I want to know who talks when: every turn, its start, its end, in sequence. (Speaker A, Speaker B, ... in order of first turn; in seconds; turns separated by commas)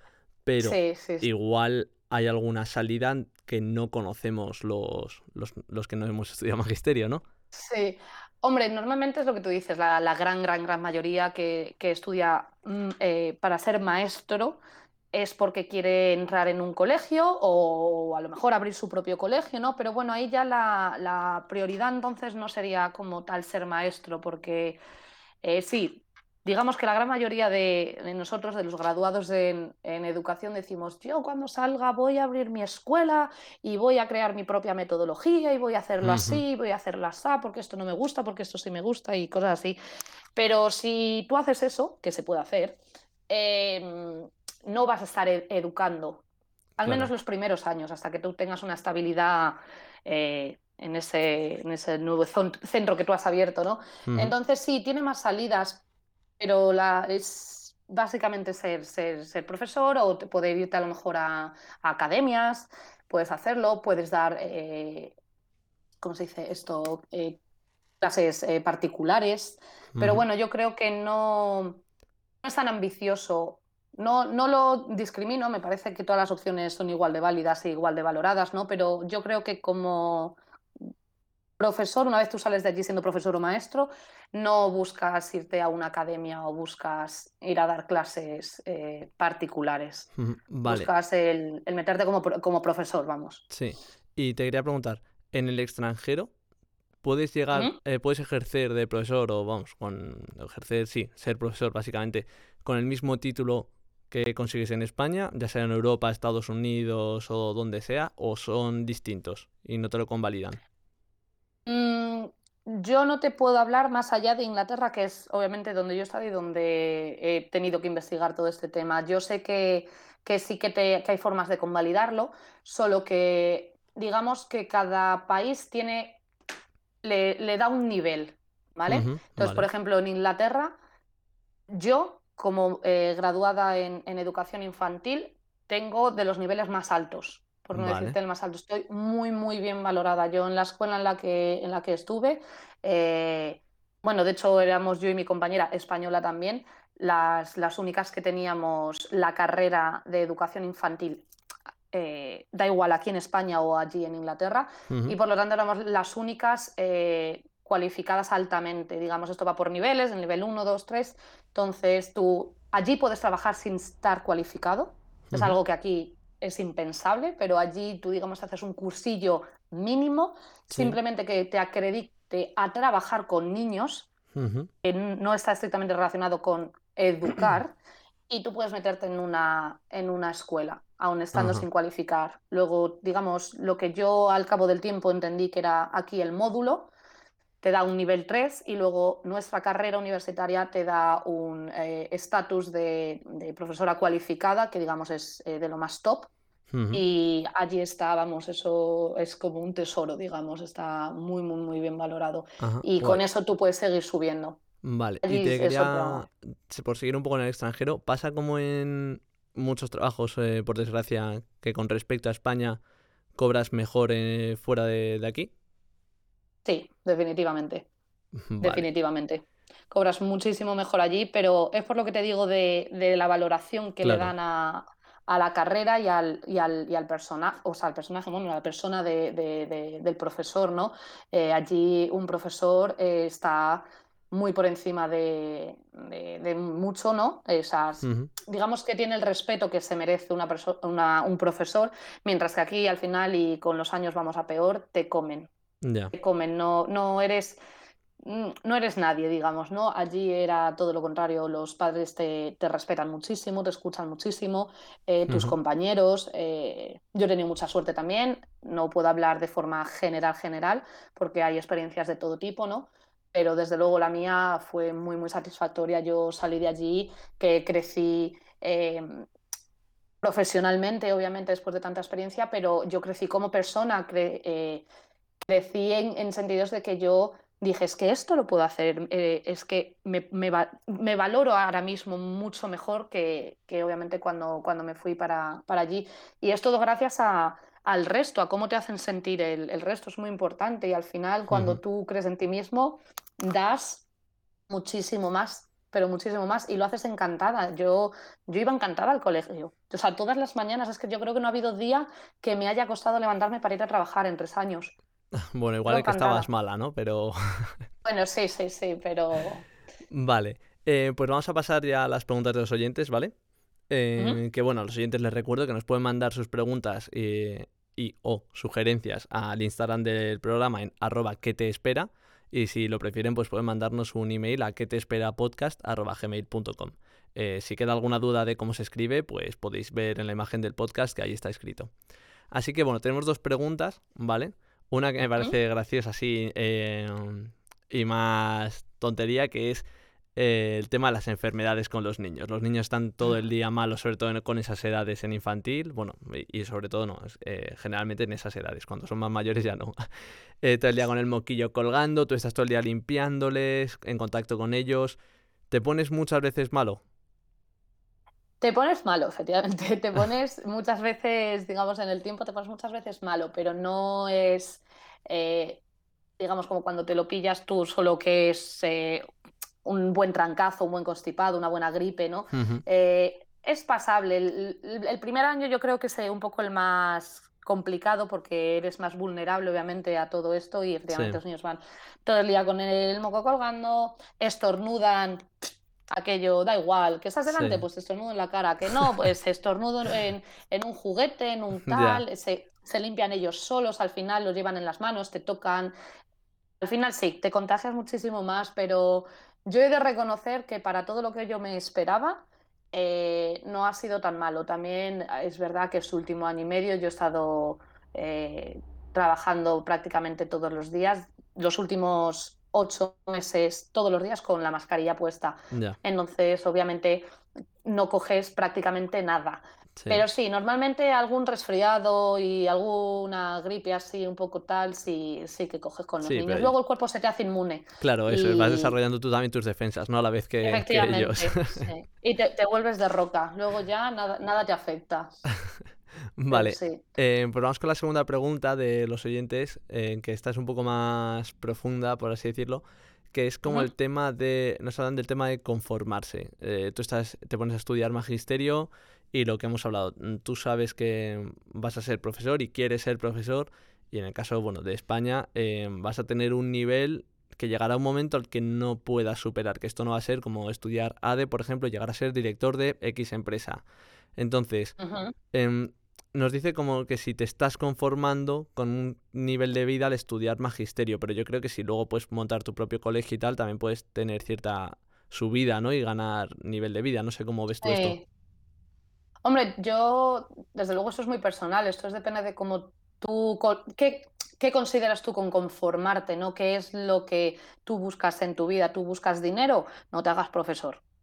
Speaker A: 0.5-7.2, Speaker B: 0.6-1.3, Speaker B: 7.5-14.6, Speaker B: 15.1-24.8, Speaker B: 25.4-39.8, Speaker A: 36.0-36.4, Speaker B: 40.3-46.2, Speaker B: 46.8-55.8, Speaker A: 46.8-47.1, Speaker A: 54.1-54.3, Speaker B: 56.4-65.1, Speaker B: 66.0-67.4, Speaker B: 68.0-71.8, Speaker A: 69.9-70.2, Speaker B: 72.4-80.9, Speaker B: 81.6-90.1, Speaker A: 90.2-90.9, Speaker B: 90.6-93.4, Speaker A: 93.5-96.3, Speaker A: 97.0-110.6, Speaker B: 111.7-126.2, Speaker B: 127.0-130.8, Speaker A: 128.9-129.7, Speaker B: 131.7-151.2, Speaker A: 137.7-138.2, Speaker B: 151.9-174.1, Speaker A: 154.9-155.2, Speaker A: 165.3-165.5, Speaker A: 170.7-170.9, Speaker A: 174.3-174.7, Speaker B: 174.8-177.8, Speaker B: 178.3-186.9, Speaker A: 181.3-181.7, Speaker B: 187.6-196.3, Speaker A: 196.7-197.0, Speaker B: 196.9-204.6, Speaker A: 202.6-203.2, Speaker A: 204.8-212.8, Speaker B: 205.2-206.2, Speaker A: 213.3-215.5, Speaker B: 216.6-217.9, Speaker A: 218.4-218.8, Speaker B: 218.6-245.5, Speaker A: 224.0-224.3, Speaker A: 238.0-238.3, Speaker A: 245.8-246.1, Speaker B: 246.1-247.6, Speaker B: 248.2-269.3, Speaker A: 255.3-255.5, Speaker B: 270.2-274.9, Speaker B: 275.4-294.0, Speaker A: 291.5-291.8, Speaker B: 294.7-304.9, Speaker A: 305.3-307.8, Speaker B: 305.9-306.5, Speaker B: 308.0-309.6, Speaker A: 310.1-313.3, Speaker A: 313.9-331.9, Speaker A: 332.5-339.8, Speaker A: 340.4-349.9, Speaker A: 350.6-355.2, Speaker A: 355.7-357.0, Speaker B: 358.6-365.8, Speaker B: 366.4-369.2, Speaker B: 369.8-385.5, Speaker A: 372.5-372.8, Speaker A: 381.1-381.4, Speaker B: 386.1-395.9, Speaker A: 387.5-387.8, Speaker A: 391.9-392.2, Speaker B: 396.8-417.3, Speaker A: 415.7-416.0, Speaker B: 417.8-428.9, Speaker A: 420.0-420.2, Speaker A: 426.2-426.7, Speaker A: 428.0-431.9, Speaker B: 430.6-435.3, Speaker A: 436.4-463.8, Speaker B: 436.5-437.0, Speaker A: 464.4-464.9, Speaker B: 465.0-465.3, Speaker A: 465.5-478.1, Speaker B: 477.8-478.2, Speaker B: 479.4-491.0